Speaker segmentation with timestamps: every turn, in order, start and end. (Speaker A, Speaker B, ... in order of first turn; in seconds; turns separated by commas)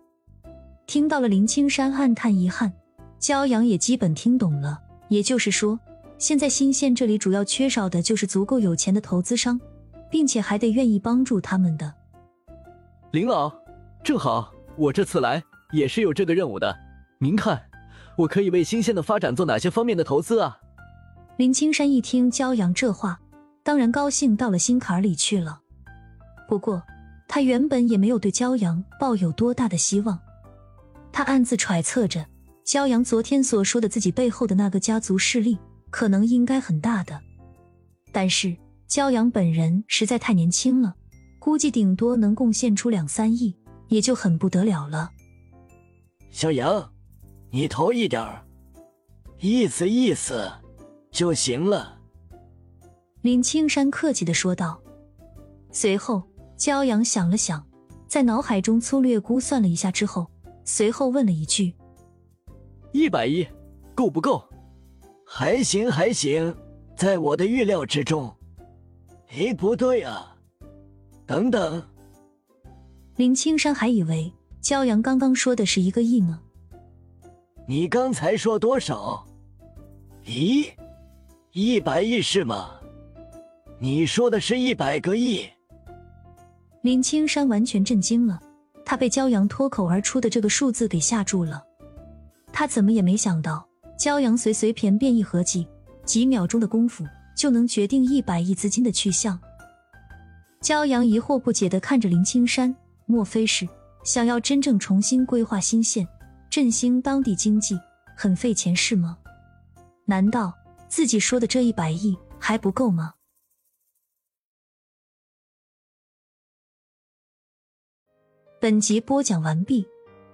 Speaker A: 0.9-12.0, Speaker B: 13.1-17.7, Speaker B: 18.2-20.6, Speaker A: 21.4-25.6, Speaker A: 26.5-30.2, Speaker A: 31.1-37.2, Speaker A: 38.1-45.1, Speaker C: 46.3-46.9, Speaker C: 47.5-48.4, Speaker C: 49.4-50.6, Speaker C: 51.1-52.0, Speaker A: 53.2-54.8, Speaker A: 55.7-61.8, Speaker B: 62.9-64.5, Speaker C: 65.3-68.4, Speaker C: 69.3-70.4, Speaker C: 71.3-71.9, Speaker A: 73.2-76.4, Speaker C: 77.7-79.3, Speaker C: 80.2-80.8, Speaker C: 81.5-82.8, Speaker C: 83.8-85.5, Speaker A: 86.8-91.7, Speaker A: 92.5-99.4, Speaker A: 100.6-109.2, Speaker A: 110.1-113.2, Speaker A: 118.6-119.9